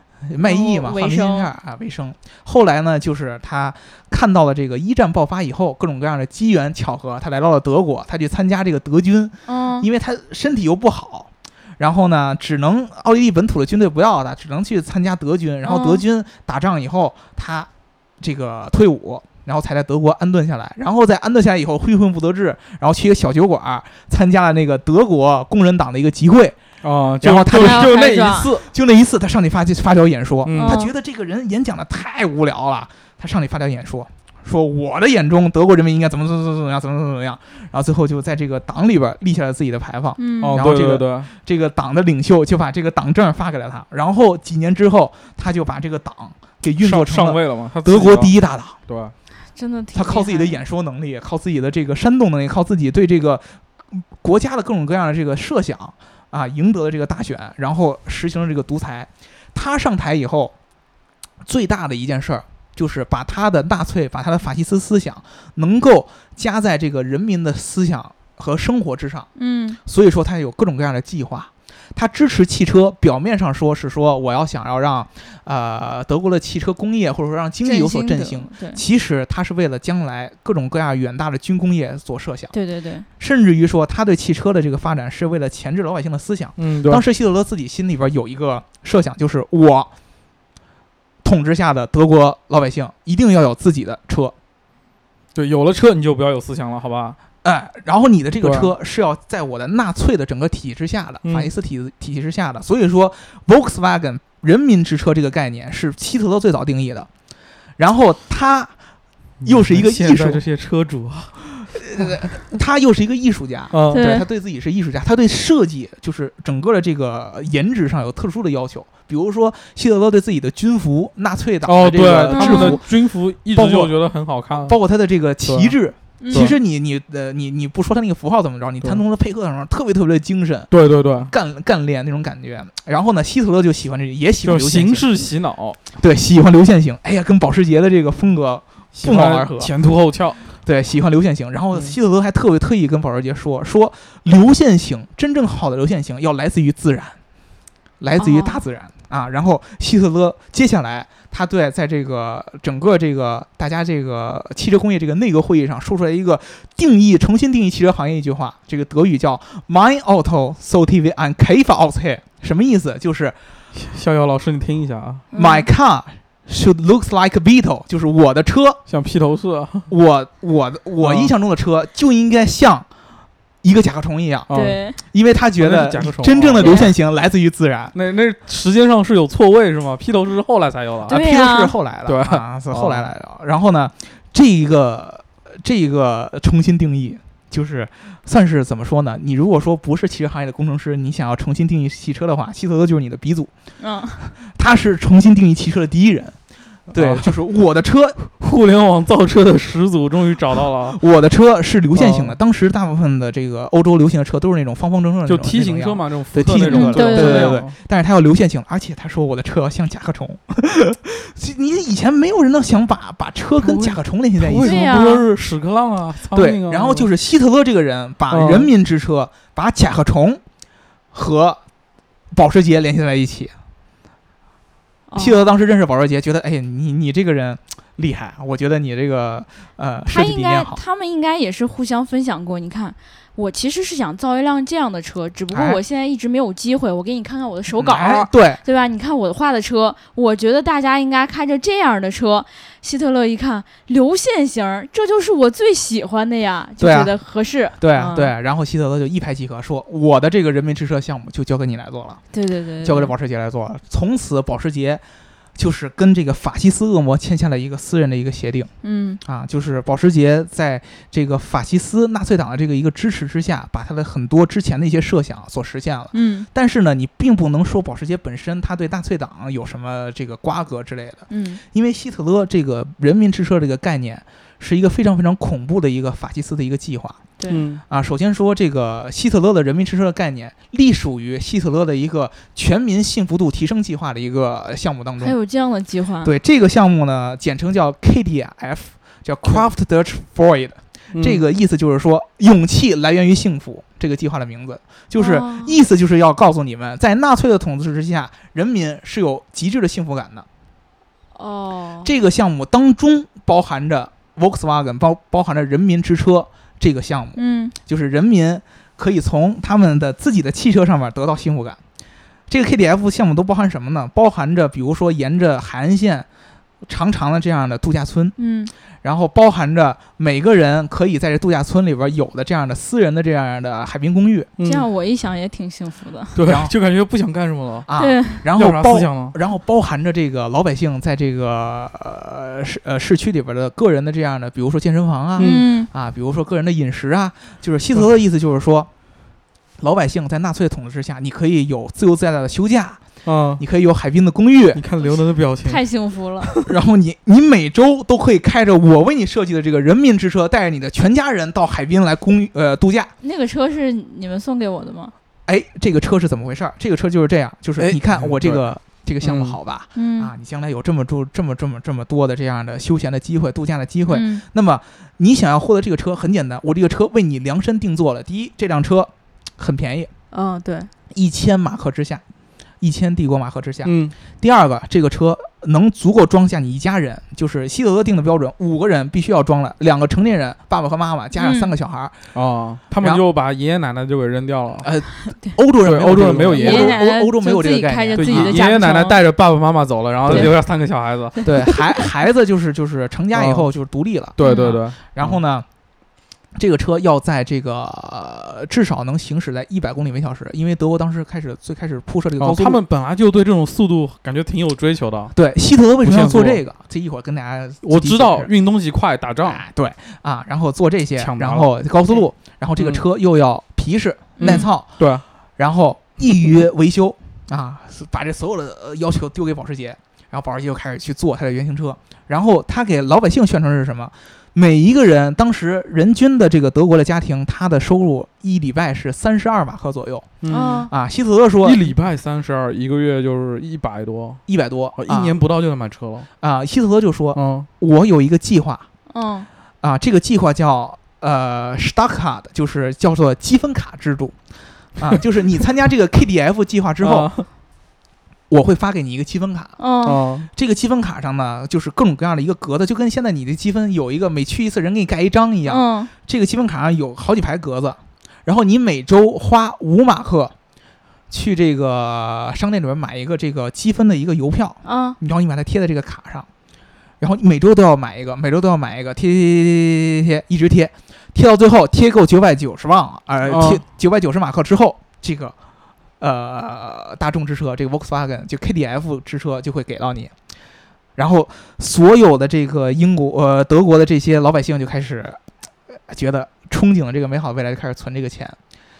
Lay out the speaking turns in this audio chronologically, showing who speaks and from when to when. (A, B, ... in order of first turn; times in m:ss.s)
0:00.2-0:17.7 A
0:00.4-0:01.5 B
0:09.5-0:09.9 B
0:15.6-0:16.0 B
0:18.2-0:26.6 A
0:26.8-0:28.7 C
0:27.2-0:48.8 A
0:27.5-0:28.5 B
0:30.4-0:30.9 C
0:30.6-0:30.9 B
0:40.2-0:40.6 B
0:40.4-0:41.3 C
0:46.8-0:48.3 C
0:48.9-0:49.1 C
0:49.6-0:50.6 B
0:49.9-1:00.5 A
1:01.4-1:09.3 A
1:09.4-1:09.8 B
1:09.8-1:22.5 A
1:17.6-1:18.8 B
1:22.5-1:23.1 B
1:23.2-1:29.9 A
1:26.6-1:27.0 C
1:31.2-1:34.4 A
1:35.4-1:37.2 C
1:37.4-1:47.1 A
1:38.4-1:38.7 C
1:41.2-1:41.5 C
1:47.8-1:48.7 A
1:49.4-1:50.4 A
1:49.4-1:52.2 C
1:51.6-2:02.9 A
1:53.7-1:54.1 C
1:53.9-1:54.2 B
2:01.6-2:04.8 C
2:02.3-2:02.8 B
2:03.5-2:04.0 A
2:04.5-2:10.7 A
2:05.4-2:05.8 C
2:06.2-2:06.5 B
2:10.7-2:11.3 C
2:11.3-2:15.1 A
2:14.4-2:15.8 C
2:16.0-2:19.7 A
2:19.0-2:20.4 C
2:20.6-2:27.2 A
2:28.0-2:43.4 A
2:28.2-2:28.6 B
2:43.7-2:45.2 C
2:45.3-2:45.7 B
2:45.3-2:48.8 A
2:48.9-2:49.9 C
2:49.9-2:52.9 A
2:51.0-2:51.3 C
2:53.6-2:54.5 A
2:54.5-2:54.8 C
2:54.5-2:55.0 B
2:55.1-2:58.0 A
2:55.6-2:56.9 C
2:56.6-2:56.9 B
2:57.9-3:01.2 C
3:01.1-3:13.5 A
3:01.1-3:01.7 B
3:02.1-3:03.1 C
3:13.8-3:14.2 B
3:14.4-3:16.4 A
3:16.9-3:18.2 A
3:16.9-3:17.4 C
3:18.2-3:21.0 C
3:20.9-3:35.0 A
3:22.0-3:22.4 C
3:25.3-3:27.7 C
3:26.7-3:27.6 B
3:33.6-3:37.1 C
3:34.6-3:35.3 B
3:36.3-3:40.4 A
3:38.3-3:38.7 C
3:41.1-3:41.6 A
3:42.3-3:43.6 A
3:45.1-3:45.5 B
3:45.2-3:50.8 A
3:50.1-4:08.3 B
3:55.5-3:55.8 A
3:57.8-3:58.6 A
4:06.8-4:07.1 A
4:07.8-4:12.2 A
4:12.3-4:13.1 B
4:12.8-4:15.0 A
4:15.6-4:18.7 A
4:18.8-4:19.2 B
4:19.2-4:37.2 A
4:26.1-4:26.5 B
4:31.3-4:31.6 B
4:37.5-4:37.8 C
4:37.9-4:45.4 A
4:45.2-4:46.3 B
4:46.2-5:00.5 A
4:51.1-4:51.4 C
4:55.2-4:55.8 B
5:01.4-5:02.1 B
5:02.0-5:11.8 A
5:07.4-5:07.8 B
5:12.5-5:16.3 A
5:16.8-5:18.4 A
5:18.4-5:18.7 B
5:19.0-5:24.5 A
5:24.6-5:24.9 C
5:24.6-5:26.4 B
5:26.4-5:27.9 C
5:26.4-5:26.7 A
5:27.9-5:38.9 A
5:28.0-5:28.4 B
5:28.5-5:29.4 C
5:35.4-5:35.7 C
5:35.4-5:35.9 B
5:39.8-5:43.0 A
5:43.2-5:43.6 C
5:43.6-5:44.8 A
5:44.8-5:45.8 C
5:45.0-5:46.5 B
5:46.4-5:46.7 C
5:46.6-5:53.1 A
5:53.2-5:55.1 B
5:55.5-6:10.1 A
5:57.8-5:58.6 C
5:59.2-5:59.6 C
6:00.0-6:00.3 B
6:04.1-6:04.4 B
6:10.3-6:10.9 B
6:11.1-6:12.2 A
6:12.8-6:22.3 A
6:13.8-6:14.1 C
6:21.4-6:21.7 B
6:22.3-6:24.9 C
6:24.8-6:28.6 A
6:25.8-6:27.0 C
6:26.5-6:29.2 B
6:28.2-6:31.4 C
6:30.3-6:30.6 A
6:30.3-6:30.5 B
6:31.4-6:31.8 B
6:31.4-6:35.7 A
6:33.3-6:33.7 C
6:34.4-6:35.4 C
6:34.4-6:34.8 B
6:36.6-6:42.8 A
6:42.4-6:45.3 C
6:45.3-6:48.5 A
6:46.0-6:46.6 C
6:47.8-6:49.6 C
6:49.4-6:54.9 A
6:51.2-6:51.7 C
6:52.8-6:53.0 C
6:54.4-6:54.7 B
6:54.4-6:55.2 C
6:55.6-7:10.4 A
7:10.4-7:10.9 C
7:10.5-7:10.9 B
7:10.9-7:11.9 A
7:11.6-7:14.4 C
7:14.5-7:15.4 A
7:15.0-7:16.3 C
7:16.4-7:18.9 A
7:17.4-7:17.7 C
7:19.1-7:19.5 B
7:19.8-7:24.4 A
7:25.0-7:27.3 A
7:27.0-7:27.5 C
7:28.5-7:29.8 A
7:29.8-7:30.2 B
7:30.0-7:30.5 C
7:30.4-7:40.6 A
7:35.7-7:36.1 B
7:41.3-7:46.5 A
7:44.8-7:45.2 B
7:47.2-7:55.6 A
7:53.5-7:53.8 C
7:56.2-8:00.3 A
8:01.2-8:08.6 A